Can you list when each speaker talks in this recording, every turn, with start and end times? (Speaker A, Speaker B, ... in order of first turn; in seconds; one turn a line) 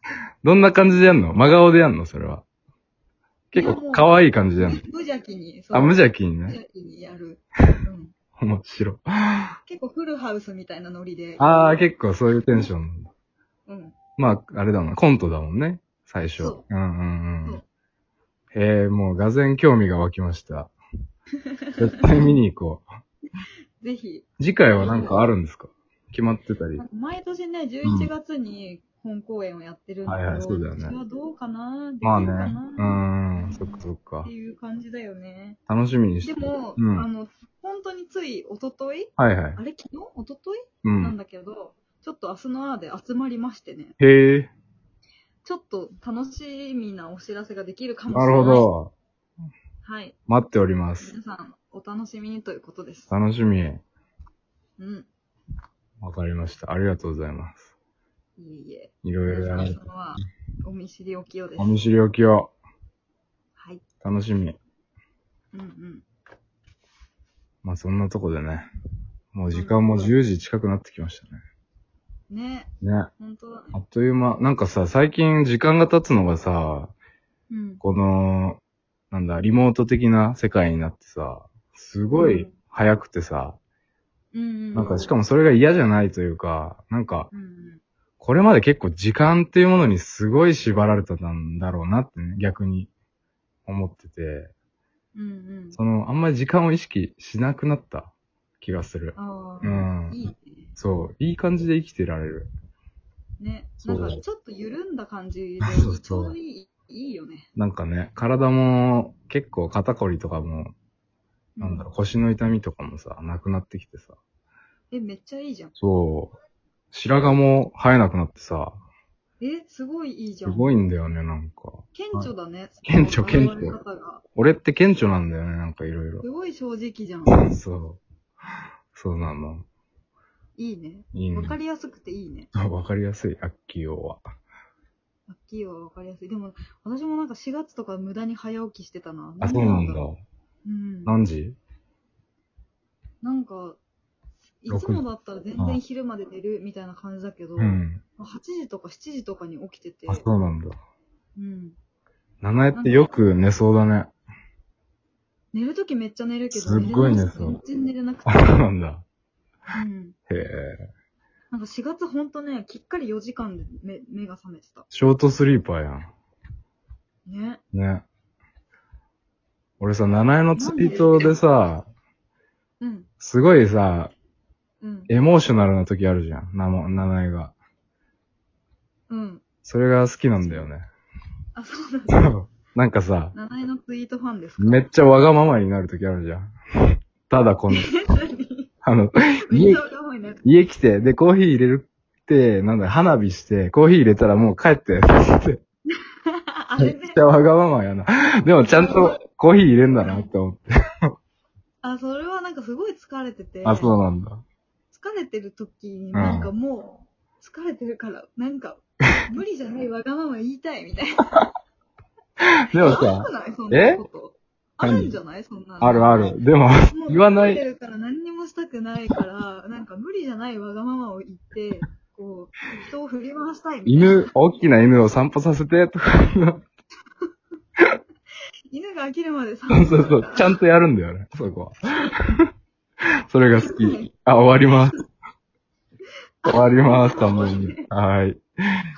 Speaker A: 0.4-2.4
Speaker A: 3.5-4.8
Speaker B: 3.6-8.1
Speaker A: 5.7-6.6
Speaker A: 8.4-9.6
Speaker B: 9.7-11.6
Speaker A: 11.4-13.1
Speaker B: 13.7-14.0
Speaker A: 14.2-17.6
Speaker B: 16.4-16.6
Speaker A: 18.5-20.7
Speaker A: 21.8-22.9
Speaker B: 22.0-22.3
Speaker B: 23.8-25.2
Speaker A: 24.4-26.8
Speaker B: 26.8-35.6
Speaker A: 27.8-28.1
Speaker A: 30.1-30.9
Speaker A: 32.0-34.3
Speaker A: 35.7-37.1
Speaker B: 36.2-44.0
Speaker A: 39.2-39.6
Speaker A: 40.8-41.2
Speaker A: 44.0-44.5
Speaker B: 45.4-48.7
Speaker A: 48.1-48.9
Speaker B: 49.8-50.2
Speaker A: 50.3-51.1
Speaker B: 51.0-53.1
Speaker A: 53.1-53.8
Speaker B: 54.8-55.1
Speaker A: 56.0-57.7
Speaker B: 58.4-61.8
Speaker A: 59.0-59.8
Speaker A: 61.6-62.5
Speaker B: 63.6-63.8
Speaker A: 64.0-64.6
Speaker B: 65.5-66.0
Speaker A: 67.6-68.7
Speaker A: 69.3-71.4
Speaker B: 69.5-70.1
Speaker B: 72.3-73.7
Speaker A: 72.8-73.1
Speaker A: 73.7-76.9
Speaker B: 77.5-77.8
Speaker A: 77.8-78.6
Speaker A: 79.1-83.6
Speaker B: 82.1-82.5
Speaker B: 84.3-85.1
Speaker A: 84.7-87.3
Speaker B: 87.3-87.8
Speaker A: 88.2-92.9
Speaker A: 93.7-94.5
Speaker B: 95.1-95.8
Speaker A: 95.7-100.2
Speaker B: 99.2-100.7
Speaker A: 100.8-102.5
Speaker B: 103.4-107.5
Speaker A: 103.8-104.2
Speaker A: 105.6-106.3
Speaker A: 107.6-110.7
Speaker B: 111.6-111.9
Speaker A: 111.6-114.2
Speaker B: 114.9-115.7
Speaker A: 115.8-116.3
Speaker A: 116.9-118.8
Speaker B: 119.4-120.7
Speaker A: 120.5-122.3
Speaker B: 121.9-124.2
Speaker A: 122.9-123.8
Speaker A: 124.3-126.2
Speaker B: 126.2-127.5
Speaker A: 127.3-128.0
Speaker A: 128.9-129.7
Speaker B: 130.6-132.5
Speaker A: 131.1-131.6
Speaker A: 132.5-134.3
Speaker B: 135.3-140.1
Speaker A: 139.4-140.2
Speaker B: 140.6-141.1
Speaker A: 141.1-141.6
Speaker B: 143.2-143.8
Speaker B: 144.6-150.3
Speaker A: 144.7-145.0
Speaker A: 147.6-148.0
Speaker A: 150.1-150.7
Speaker B: 151.3-151.8
Speaker A: 152.4-154.1
Speaker B: 152.7-153.1
Speaker B: 155.5-158.6
Speaker A: 156.5-157.6
Speaker A: 158.3-159.1
Speaker B: 159.7-160.2
Speaker A: 160.3-160.8
Speaker B: 161.5-164.8
Speaker A: 164.9-166.1
Speaker B: 167.2-167.6
Speaker A: 167.7-168.1
Speaker A: 169.8-171.9
Speaker B: 170.6-171.4
Speaker B: 172.8-173.1
Speaker A: 173.2-174.1
Speaker B: 174.8-175.1
Speaker A: 175.1-177.5
Speaker B: 179.1-179.4
Speaker A: 179.6-180.8
Speaker B: 181.6-182.3
Speaker A: 182.1-183.3
Speaker B: 183.3-184.9
Speaker A: 184.6-187.9
Speaker B: 187.7-188.7
Speaker A: 188.8-189.8
Speaker B: 189.5-190.4
Speaker A: 190.4-195.6
Speaker B: 196.2-197.2
Speaker A: 196.8-201.1
Speaker B: 198.6-199.2
Speaker B: 200.0-200.3
Speaker B: 201.8-203.9
Speaker A: 203.6-204.4
Speaker B: 204.9-211.3
Speaker A: 206.1-206.5
Speaker B: 212.7-216.3
Speaker A: 212.7-214.0
Speaker A: 214.8-215.2
Speaker A: 215.8-217.6
Speaker B: 216.9-224.3
Speaker A: 223.8-226.6
Speaker B: 228.7-230.5
Speaker A: 229.7-232.5
Speaker A: 233.3-235.0
Speaker B: 233.6-234.1
Speaker B: 236.4-237.8
Speaker A: 236.4-238.4